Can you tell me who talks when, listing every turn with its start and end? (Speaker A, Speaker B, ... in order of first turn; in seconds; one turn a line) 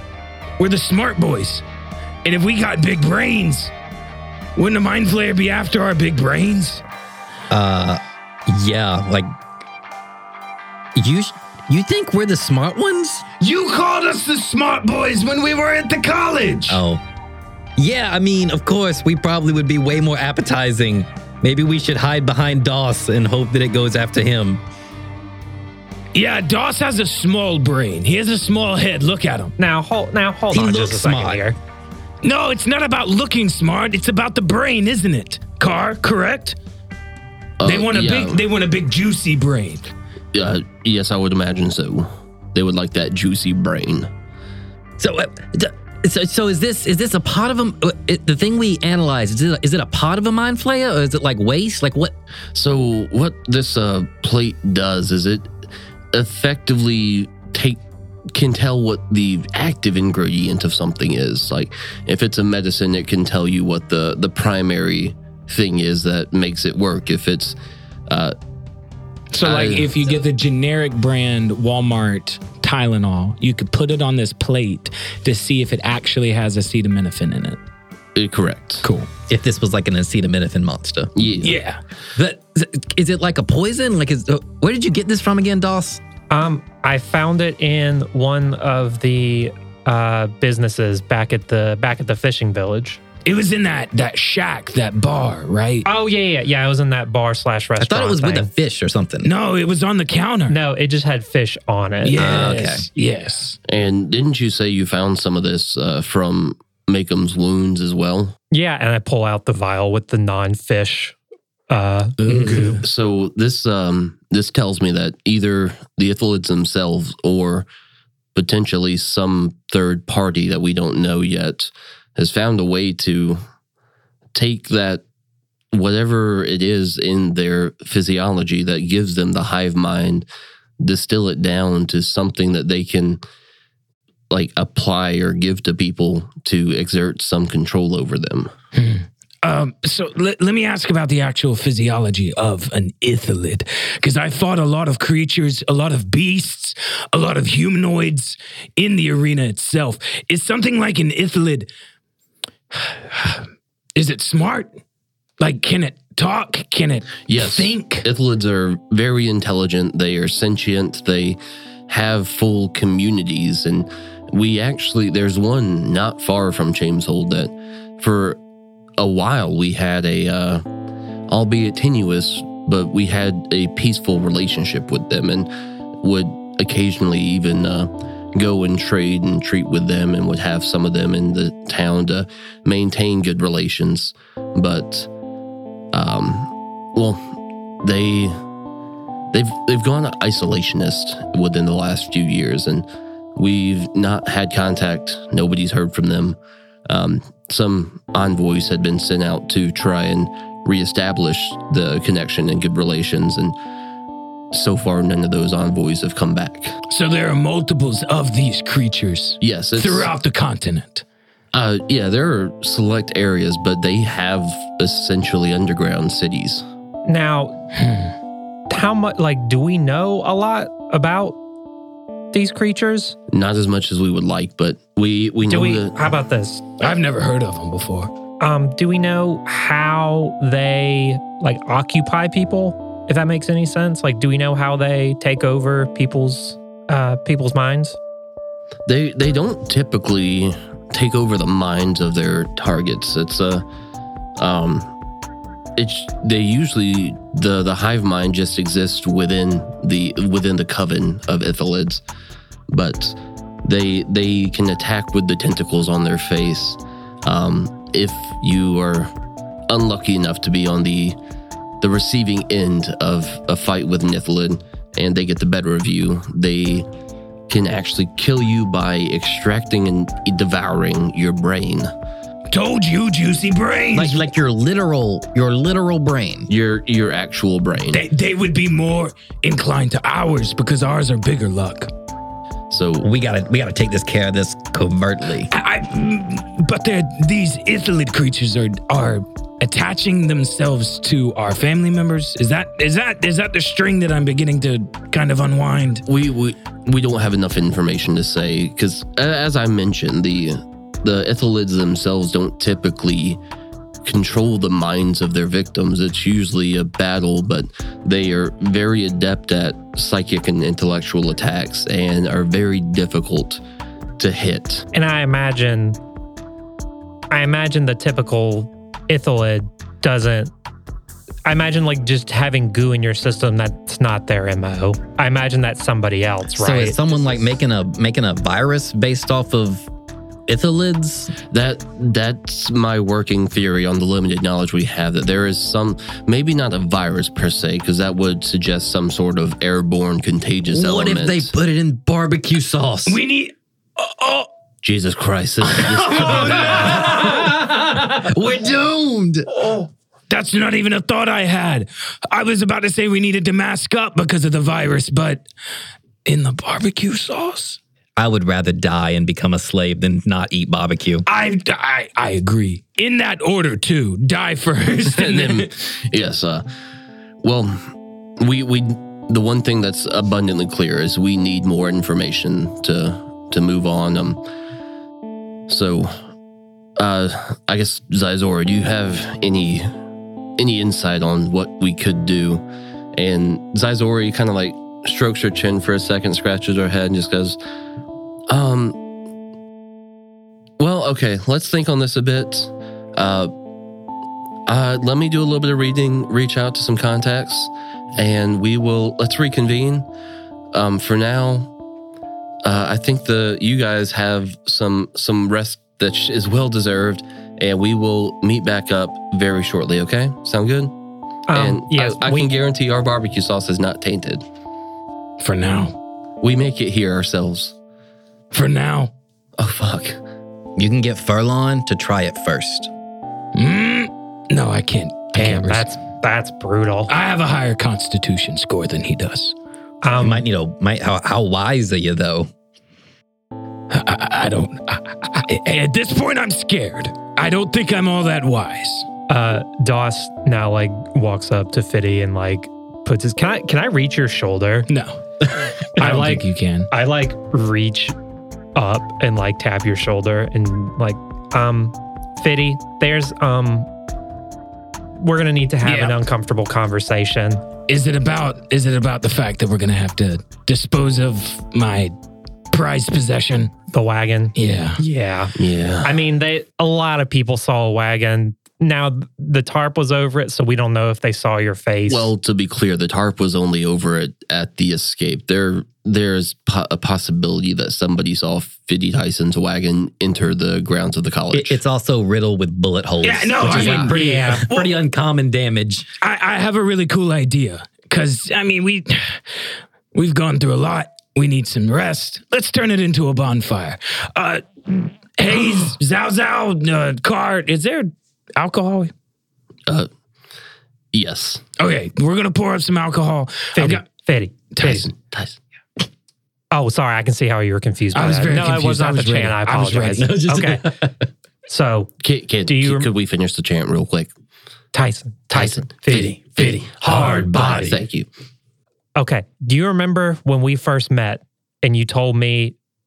Speaker A: 0.6-1.6
Speaker A: 2.2-3.7
Speaker A: 4.5-6.8
Speaker B: 7.5-9.3
Speaker B: 10.9-13.2
Speaker A: 13.4-16.8
Speaker B: 16.7-17.0
Speaker B: 17.8-24.6
Speaker A: 26.1-29.5
Speaker C: 29.6-31.6
Speaker B: 30.5-31.4
Speaker A: 32.2-36.6
Speaker D: 37.6-38.4
Speaker A: 37.6-39.9
Speaker D: 40.3-44.1
Speaker B: 45.0-52.1
Speaker D: 52.5-55.5
Speaker D: 56.1-57.8
Speaker D: 58.3-67.6
Speaker D: 68.1-68.3
Speaker A: 69.3-77.6
Speaker D: 69.4-70.0
Speaker D: 78.2-78.8
Speaker A: 78.8-79.1
Speaker B: 79.3-81.1
Speaker D: 81.2-81.6
Speaker A: 81.4-81.8
Speaker B: 82.2-86.0
Speaker C: 86.3-93.0
Speaker A: 93.2-95.9
Speaker C: 95.8-98.5
Speaker B: 97.8-99.3
Speaker A: 99.2-100.6
Speaker C: 100.5-102.5
Speaker A: 102.0-103.6
Speaker B: 102.2-102.9
Speaker D: 103.7-108.3
Speaker C: 108.5-111.2
Speaker C: 111.7-112.8
Speaker A: 112.2-112.8
Speaker D: 112.3-117.7
Speaker D: 118.3-123.4
Speaker D: 124.3-125.0
Speaker D: 125.7-130.3
Speaker D: 130.8-133.2
Speaker D: 134.3-138.5
Speaker A: 138.7-151.7
Speaker A: 152.7-154.8
Speaker A: 155.4-158.1
Speaker D: 157.3-161.4
Speaker D: 161.9-168.4
Speaker D: 169.0-170.7
Speaker D: 171.3-185.1
Speaker D: 185.9-188.4
Speaker D: 189.3-203.6
Speaker D: 204.5-206.8
Speaker A: 206.9-211.0
Speaker D: 209.4-210.1
Speaker D: 211.5-216.7
Speaker C: 217.1-217.6
Speaker A: 217.8-218.1
Speaker C: 218.7-221.4
Speaker C: 222.3-223.2
Speaker D: 223.3-226.2
Speaker C: 225.5-226.6
Speaker A: 226.8-228.1
Speaker C: 228.4-238.0
Speaker D: 238.9-243.7
Speaker D: 244.4-244.9
Speaker D: 245.8-252.0
Speaker D: 252.7-259.1
Speaker D: 259.7-261.2
Speaker D: 261.8-266.9
Speaker D: 267.5-271.9
Speaker A: 272.5-274.2
Speaker B: 273.9-276.5
Speaker D: 276.5-278.0
Speaker A: 277.9-281.9
Speaker D: 282.7-283.1
Speaker B: 283.0-285.5
Speaker A: 285.5-296.0
Speaker D: 296.1-303.4
Speaker D: 304.1-313.6
Speaker D: 314.2-314.9
Speaker C: 314.9-316.0
Speaker C: 317.3-320.5
Speaker C: 321.5-327.0
Speaker B: 326.6-329.9
Speaker B: 330.5-331.4
Speaker D: 331.5-341.5
Speaker B: 340.7-343.2
Speaker A: 343.1-344.5
Speaker D: 344.8-347.4
Speaker A: 345.7-348.0
Speaker B: 346.9-349.5
Speaker A: 350.3-355.5
Speaker A: 356.2-357.8
Speaker B: 358.2-361.3
Speaker A: 361.3-365.7
Speaker D: 365.1-366.6
Speaker D: 367.4-374.4
Speaker D: 375.7-376.2
Speaker D: 377.0-379.9
Speaker D: 380.6-382.6
Speaker D: 383.1-387.6
Speaker D: 388.5-389.0
Speaker D: 390.8-393.5
Speaker D: 394.7-400.1
Speaker D: 400.7-401.7
Speaker D: 402.6-410.9
Speaker C: 411.5-412.5
Speaker D: 411.5-414.4
Speaker A: 415.4-416.0
Speaker D: 416.4-417.8
Speaker A: 418.5-419.1
Speaker D: 419.6-420.2
Speaker B: 420.8-422.9
Speaker A: 423.6-425.9
Speaker C: 425.4-427.1
Speaker A: 427.1-429.6
Speaker C: 430.0-430.4
Speaker B: 430.1-432.5
Speaker A: 433.9-439.1
Speaker C: 439.3-444.9
Speaker A: 444.9-446.9
Speaker C: 446.0-448.1
Speaker C: 448.8-453.9
Speaker C: 455.2-457.6
Speaker A: 455.8-456.2
Speaker A: 457.9-462.1
Speaker A: 462.7-463.7
Speaker C: 463.9-472.3
Speaker A: 464.6-465.0
Speaker D: 465.6-466.1
Speaker D: 472.1-481.8
Speaker B: 481.5-486.1
Speaker A: 483.2-485.0
Speaker D: 483.7-484.1
Speaker C: 483.7-484.7
Speaker A: 486.2-489.4
Speaker A: 490.1-499.1
Speaker D: 501.1-501.6
Speaker A: 501.8-504.1
Speaker C: 503.8-505.1
Speaker A: 504.7-505.1
Speaker D: 504.9-505.6
Speaker C: 506.7-510.9
Speaker A: 508.1-510.6
Speaker B: 510.6-511.1
Speaker C: 511.7-512.1
Speaker D: 512.2-514.3
Speaker C: 512.7-513.1
Speaker C: 514.9-516.8
Speaker D: 515.5-518.3
Speaker B: 517.0-518.0
Speaker C: 519.2-522.8